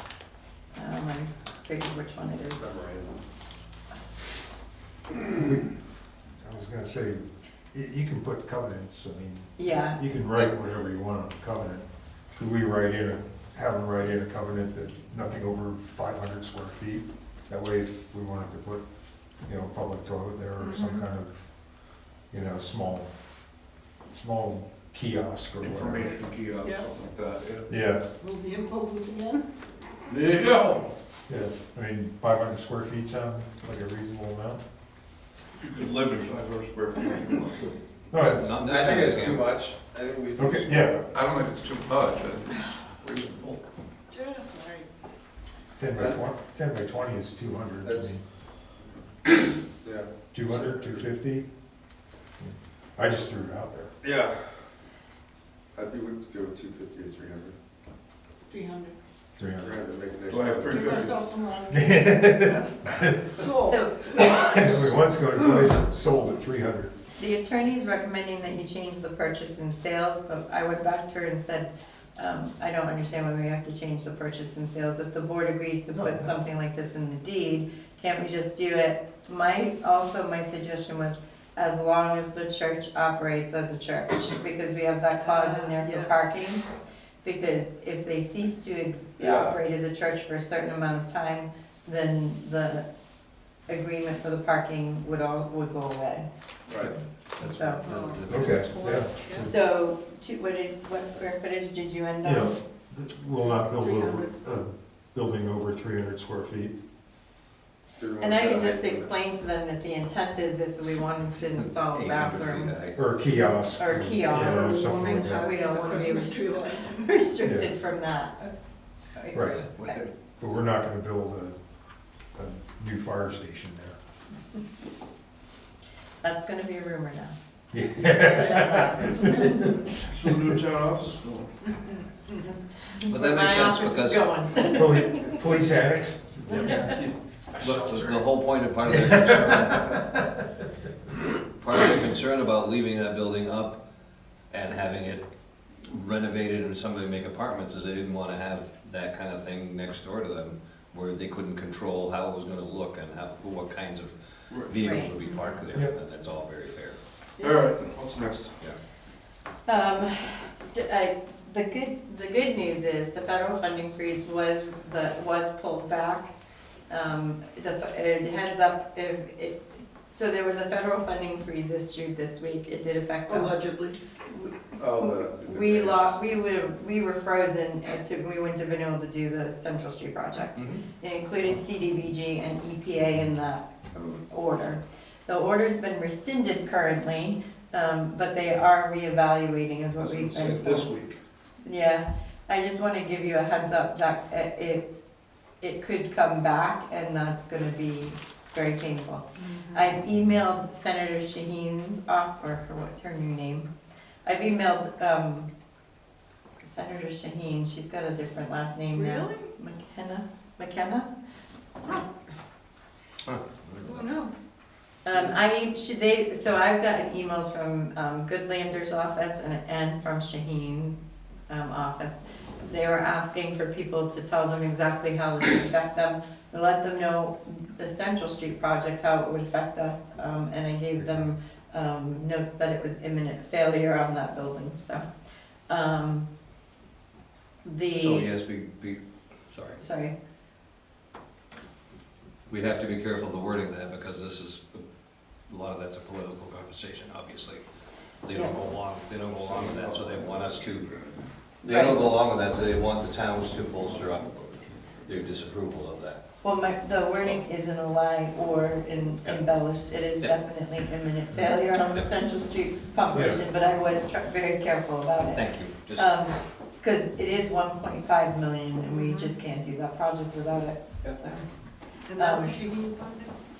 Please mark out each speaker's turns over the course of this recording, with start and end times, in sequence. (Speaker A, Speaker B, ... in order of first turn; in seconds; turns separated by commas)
Speaker A: 0.7-2.7, Speaker B: 2.6-3.2, Speaker C: 5.3-5.7, Speaker C: 6.4-18.9, Speaker A: 9.6-10.2, Speaker C: 19.4-26.2, Speaker D: 20.6-21.0, Speaker E: 25.6-27.7, Speaker C: 27.7-28.0, Speaker D: 28.2-29.4, Speaker E: 30.1-30.9, Speaker C: 31.3-34.6, Speaker E: 35.6-37.7, Speaker C: 38.1-38.6, Speaker F: 38.2-39.6, Speaker B: 38.6-41.0, Speaker C: 40.4-41.0, Speaker E: 41.0-43.6, Speaker D: 44.1-44.9, Speaker C: 45.8-48.2, Speaker B: 47.8-48.1, Speaker B: 49.8-51.0, Speaker C: 50.3-51.5, Speaker C: 52.4-53.9, Speaker B: 54.0-54.4, Speaker B: 55.7-57.6, Speaker D: 58.5-59.0, Speaker C: 59.4-59.7, Speaker B: 59.6-61.2, Speaker E: 60.3-61.0, Speaker D: 60.7-62.6, Speaker C: 61.7-66.9, Speaker D: 63.4-64.4, Speaker A: 63.6-64.4, Speaker A: 67.2-86.7, Speaker C: 75.9-76.3, Speaker D: 85.2-86.3, Speaker A: 87.2-92.9, Speaker B: 89.2-89.5, Speaker A: 93.7-96.3, Speaker F: 96.8-99.0, Speaker A: 97.4-97.8, Speaker D: 97.8-98.4, Speaker C: 98.3-99.5, Speaker D: 99.0-99.4, Speaker A: 99.3-102.5, Speaker C: 102.2-106.8, Speaker D: 103.7-104.3, Speaker B: 108.0-109.1, Speaker A: 108.2-112.8, Speaker F: 111.6-113.0, Speaker C: 113.0-115.5, Speaker A: 113.8-118.5, Speaker D: 114.3-117.2, Speaker C: 117.4-117.7, Speaker A: 119.1-120.0, Speaker C: 119.3-119.7, Speaker F: 119.8-120.1, Speaker C: 120.4-121.6, Speaker C: 122.3-124.0, Speaker A: 126.2-127.4, Speaker C: 127.7-130.5, Speaker A: 128.0-129.7, Speaker E: 130.1-131.5, Speaker A: 132.3-135.4, Speaker F: 133.1-134.5, Speaker C: 134.6-137.0, Speaker A: 136.5-137.0, Speaker E: 136.6-138.3, Speaker C: 137.5-137.9, Speaker F: 137.8-140.2, Speaker C: 138.9-140.2, Speaker F: 141.5-143.8, Speaker F: 144.5-145.3, Speaker F: 145.8-157.0, Speaker A: 154.8-155.1, Speaker E: 157.4-158.6, Speaker A: 159.7-166.3, Speaker A: 166.9-173.7, Speaker D: 173.3-174.0, Speaker A: 174.3-190.9, Speaker B: 174.8-176.2, Speaker F: 180.6-180.8, Speaker E: 190.0-191.2, Speaker A: 191.6-194.9, Speaker A: 195.6-203.7, Speaker D: 199.4-200.0, Speaker A: 204.2-205.5, Speaker A: 206.6-211.1, Speaker D: 208.9-209.5, Speaker F: 213.3-214.0, Speaker D: 213.8-214.3, Speaker A: 215.1-235.1, Speaker A: 235.7-236.3, Speaker A: 237.6-238.3, Speaker F: 237.9-239.8, Speaker A: 239.8-240.1, Speaker F: 242.5-244.9, Speaker F: 245.4-247.6, Speaker F: 248.2-250.9, Speaker E: 249.3-251.3, Speaker F: 251.5-256.2, Speaker A: 251.6-252.2, Speaker E: 253.6-255.2, Speaker A: 256.4-271.4, Speaker C: 263.1-263.4, Speaker F: 265.3-266.1, Speaker D: 269.0-269.3, Speaker D: 272.1-273.3, Speaker A: 272.2-272.6